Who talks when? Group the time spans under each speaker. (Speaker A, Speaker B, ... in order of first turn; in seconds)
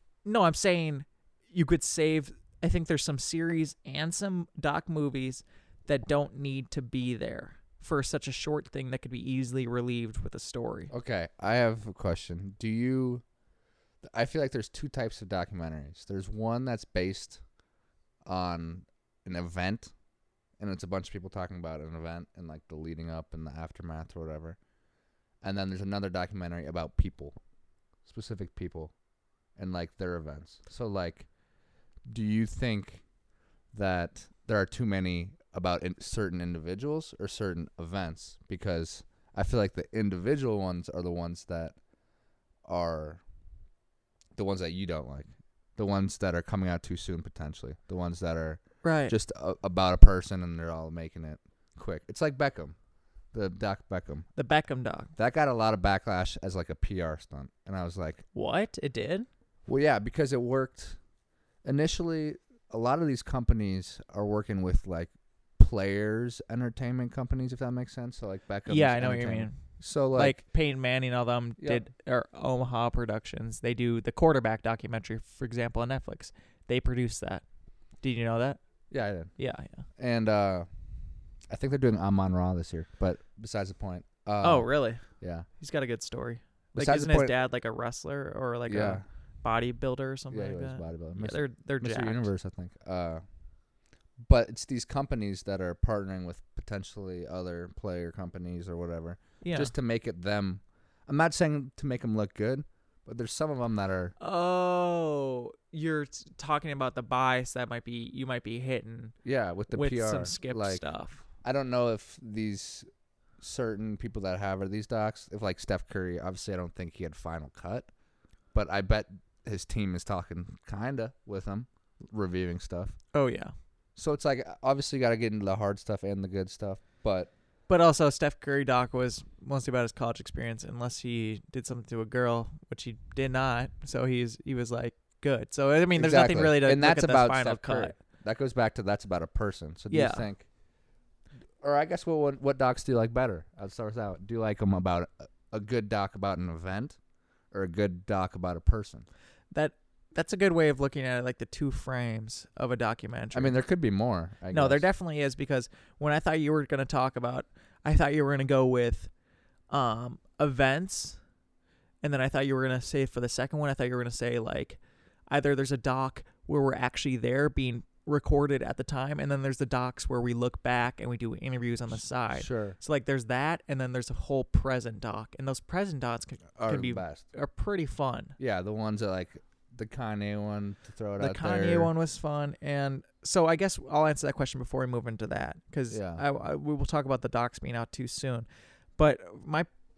Speaker A: 0.2-10.9, 48.8-49.1, 54.4-55.1, 58.3-59.3, 68.7-69.6, 70.1-77.4, 78.0-78.6, 79.4-79.8, 84.4-85.0, 85.6-92.3, 99.4-99.7, 104.2-109.1, 109.7-111.2, 123.1-123.5, 127.7-137.9, 139.9-140.3, 149.5-153.6, 154.5-159.1, 159.7-161.2, 162.0-164.8, 165.3-178.3, 181.2-188.4, 189.0-189.7
Speaker B: 10.9-13.2, 14.0-17.4, 18.2-19.9, 20.6-24.6, 25.4-27.4, 28.0-28.9, 29.6-31.3, 32.0-33.0, 33.7-41.8, 42.6-43.2, 44.4-52.8, 53.3-54.3, 55.2-58.2, 59.7-61.0, 61.6-70.4, 78.9-79.3, 80.0-80.7, 81.5-85.5, 86.8-87.3, 88.7-89.0, 90.3-93.2, 94.2-104.1, 109.2-110.8, 111.4-112.8, 113.4-117.9, 118.5-123.0, 124.0-127.3, 135.9-140.5, 141.6-147.0, 147.5-149.1, 153.3-154.8, 172.3-172.8, 176.6-177.2, 178.4-181.9, 185.9-186.2